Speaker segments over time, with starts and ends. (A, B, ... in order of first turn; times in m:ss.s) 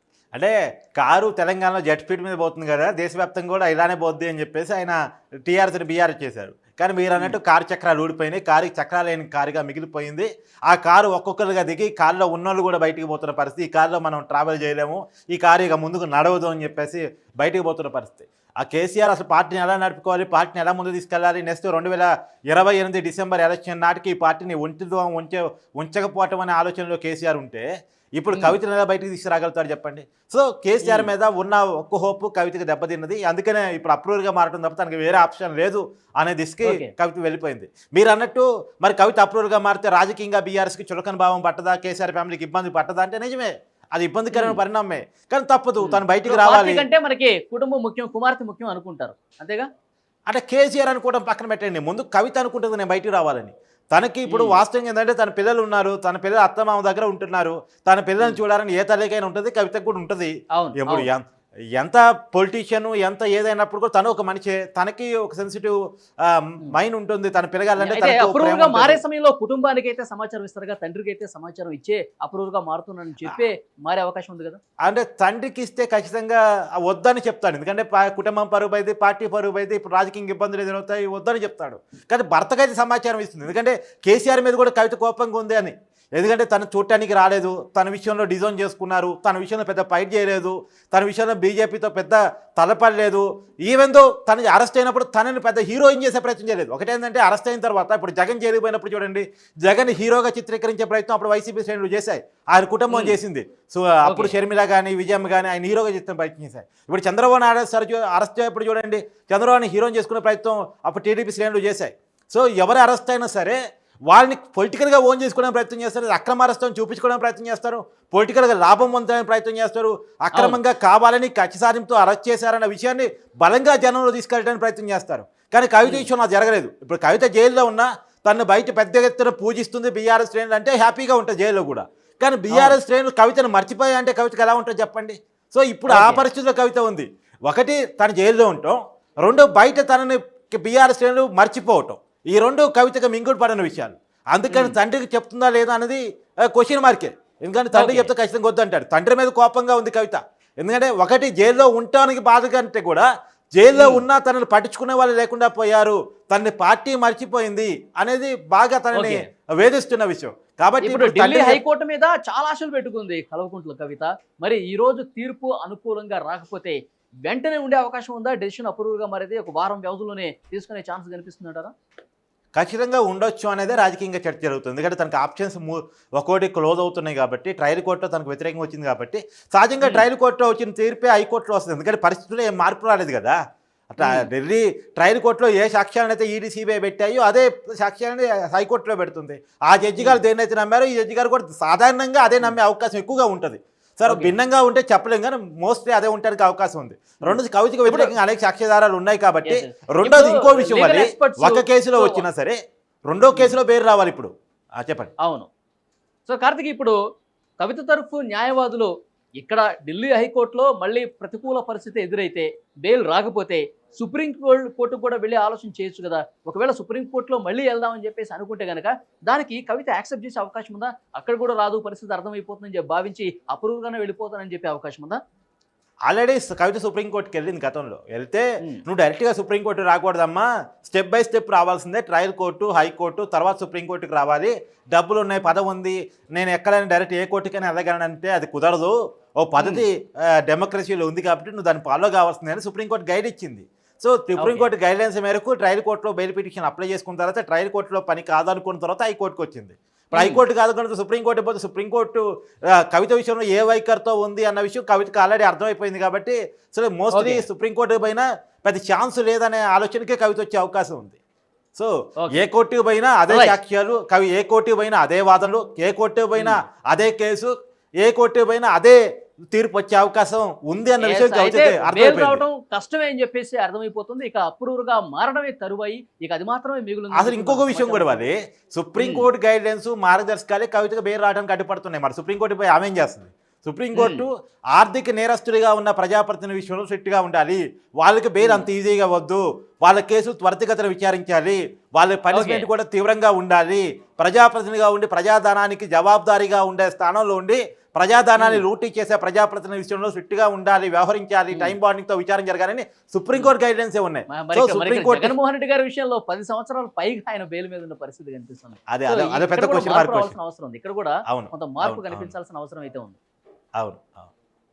0:00.3-0:46.8 A
0:28.3-0:28.6 B
0:30.8-0:31.1 B
0:36.6-0:36.9 B
0:44.3-0:44.6 B
0:45.8-0:49.7 B
0:50.3-1:09.0 A
0:54.3-0:54.6 B
1:00.5-1:01.1 B
1:07.8-1:14.6 B
1:14.8-1:53.6 A
1:42.9-1:43.2 B
1:44.0-1:44.4 B
1:54.1-2:41.6 A
2:12.5-2:12.8 B
2:15.9-2:16.2 B
2:24.5-2:24.8 B
2:27.7-2:28.1 B
2:33.7-2:34.0 B
2:38.9-2:39.2 B
2:40.8-2:51.7 B
2:52.5-3:03.4 A
3:03.9-3:22.6 A
3:04.0-3:04.3 B
3:14.1-3:14.3 B
3:17.2-3:18.1 B
3:19.5-3:22.2 B
3:23.1-3:25.1 A
3:23.3-3:23.6 B
3:25.2-3:25.5 B
3:26.2-3:27.0 B
3:27.6-3:45.2 B
3:46.1-4:21.2 A
3:59.6-3:59.8 B
4:04.4-4:04.7 B
4:10.1-4:10.4 B
4:17.1-4:17.4 B
4:21.7-4:29.0 A
4:23.3-4:23.5 B
4:29.5-4:32.4 A
4:31.0-4:38.3 B
4:37.1-5:05.3 A
4:39.0-4:39.2 B
4:43.9-4:44.2 B
4:48.4-4:48.7 B
4:52.3-4:52.7 B
4:58.4-4:58.6 B
5:01.5-5:01.8 B
5:04.3-5:13.2 B
5:08.9-5:10.3 A
5:11.3-5:12.3 A
5:13.8-5:14.3 A